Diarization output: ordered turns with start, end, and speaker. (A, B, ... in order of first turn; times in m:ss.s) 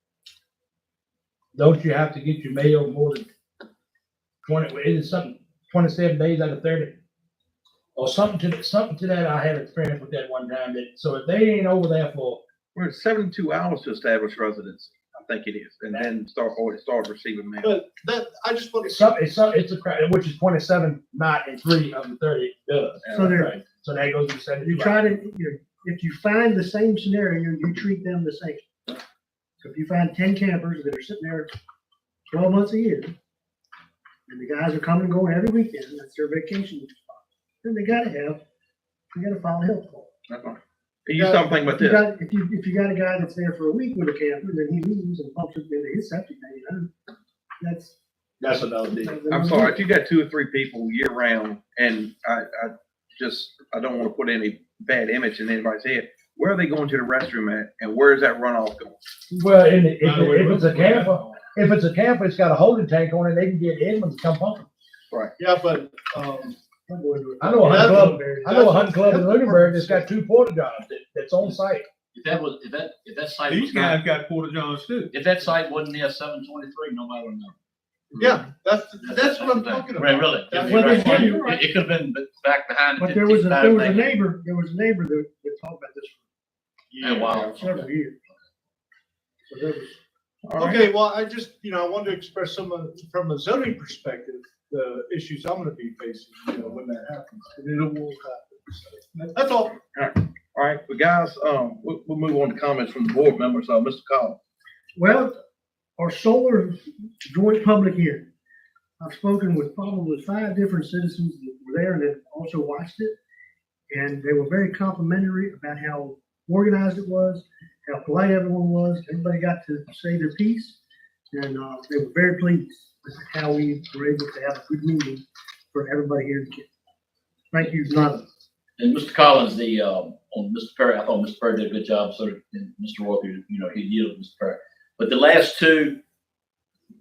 0:01.5-0:03.3 A
0:04.4-0:07.0 A
0:08.0-0:12.4 A
0:12.7-0:17.8 B
0:17.6-0:19.1 C
0:18.8-0:25.0 A
0:23.1-0:23.6 D
0:24.6-0:29.0 D
0:29.6-0:31.5 D
0:32.3-0:33.1 D
0:34.3-0:38.4 D
0:39.1-0:40.1 D
0:40.3-0:42.0 B
0:41.2-0:46.9 D
0:47.6-0:47.9 D
0:48.4-0:49.2 A
0:48.9-0:49.8 D
0:49.3-0:59.0 B
0:59.3-1:04.6 A
1:00.0-1:01.5 E
1:05.4-1:06.6 C
1:06.9-1:08.6 D
1:07.4-1:11.9 A
1:07.6-1:10.1 C
1:12.1-1:14.0 F
1:13.5-1:15.1 E
1:15.1-1:17.5 F
1:18.1-1:18.4 F
1:18.2-1:21.6 C
1:19.0-1:24.2 F
1:20.6-1:21.4 D
1:23.0-1:26.2 D
1:27.0-1:27.4 C
1:27.0-1:27.9 F
1:27.4-1:28.2 D
1:29.5-1:30.0 D
1:30.4-1:30.9 B
1:30.5-1:39.8 C
1:39.9-1:44.4 B
1:44.9-1:45.4 D
1:46.0-1:48.3 D
1:49.0-1:53.2 D
1:53.9-2:00.8 D
2:01.3-2:06.7 D
2:07.5-2:08.2 D
2:08.8-2:16.0 F